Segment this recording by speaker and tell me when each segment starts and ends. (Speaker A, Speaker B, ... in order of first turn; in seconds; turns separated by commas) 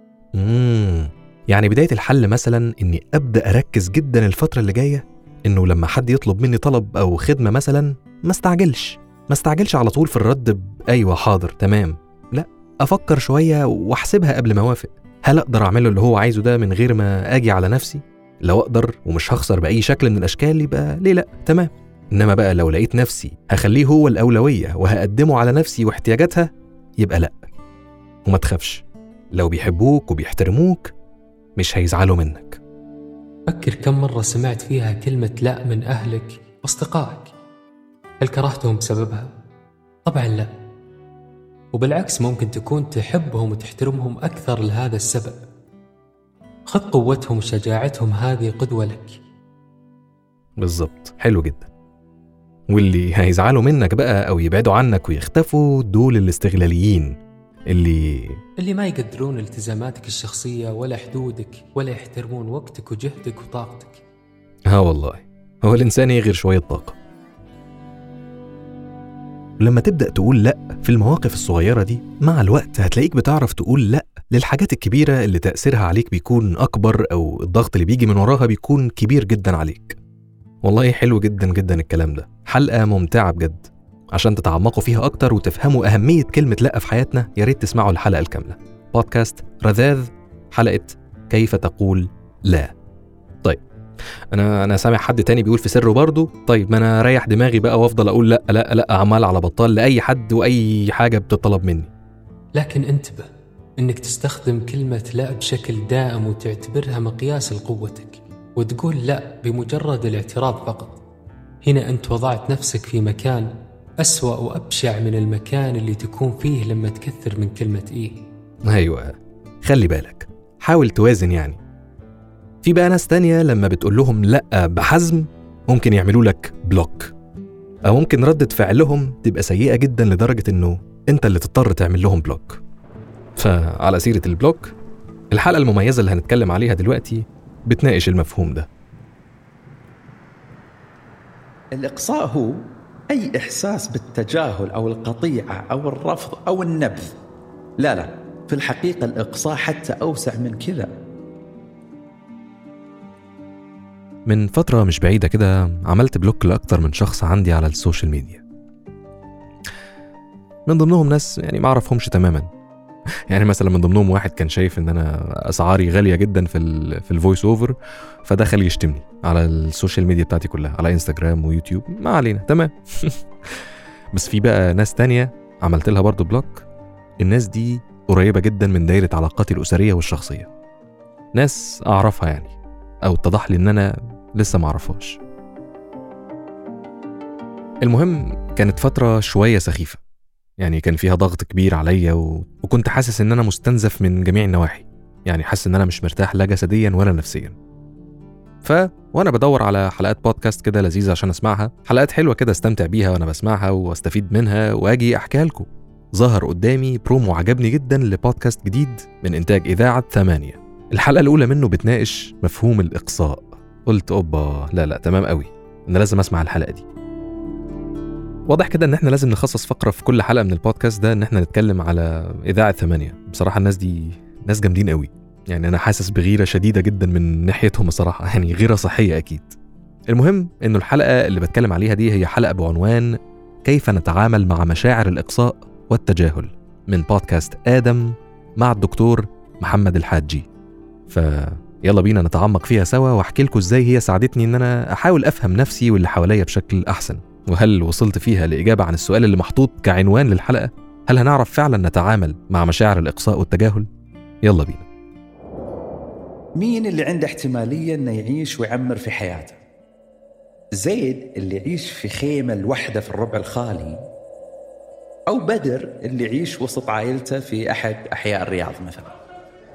Speaker A: 0.3-27.5, Speaker A: 28.3-30.9, Speaker A: 31.6-32.6, Speaker B: 33.5-37.3, Speaker B: 38.2-39.3, Speaker B: 40.0-40.5, Speaker B: 41.7-45.4, Speaker B: 46.7-49.2, Speaker A: 50.6-51.7, Speaker A: 52.7-57.2, Speaker A: 57.7-58.4, Speaker B: 58.6-64.0, Speaker A: 64.7-67.0, Speaker A: 69.6-80.0, Speaker A: 80.6-92.7, Speaker A: 94.3-101.9, Speaker B: 102.5-103.3, Speaker B: 103.8-111.0, Speaker B: 111.6-113.5, Speaker B: 114.0-118.2, Speaker A: 118.7-121.6, Speaker A: 122.6-127.1, Speaker A: 127.9-132.6, Speaker A: 133.4-134.7, Speaker A: 135.3-138.7, Speaker C: 141.8-147.1, Speaker C: 147.8-150.9, Speaker A: 154.3-158.4, Speaker A: 160.7-162.5, Speaker A: 163.3-176.7, Speaker A: 177.2-180.5, Speaker A: 181.3-182.5, Speaker A: 183.1-185.2, Speaker A: 187.8-190.0, Speaker A: 190.6-197.6, Speaker A: 198.6-216.9, Speaker A: 218.5-229.6, Speaker A: 230.1-240.5, Speaker A: 241.1-253.9, Speaker A: 254.4-254.9, Speaker C: 256.6-259.6, Speaker C: 260.8-264.0, Speaker C: 265.3-269.1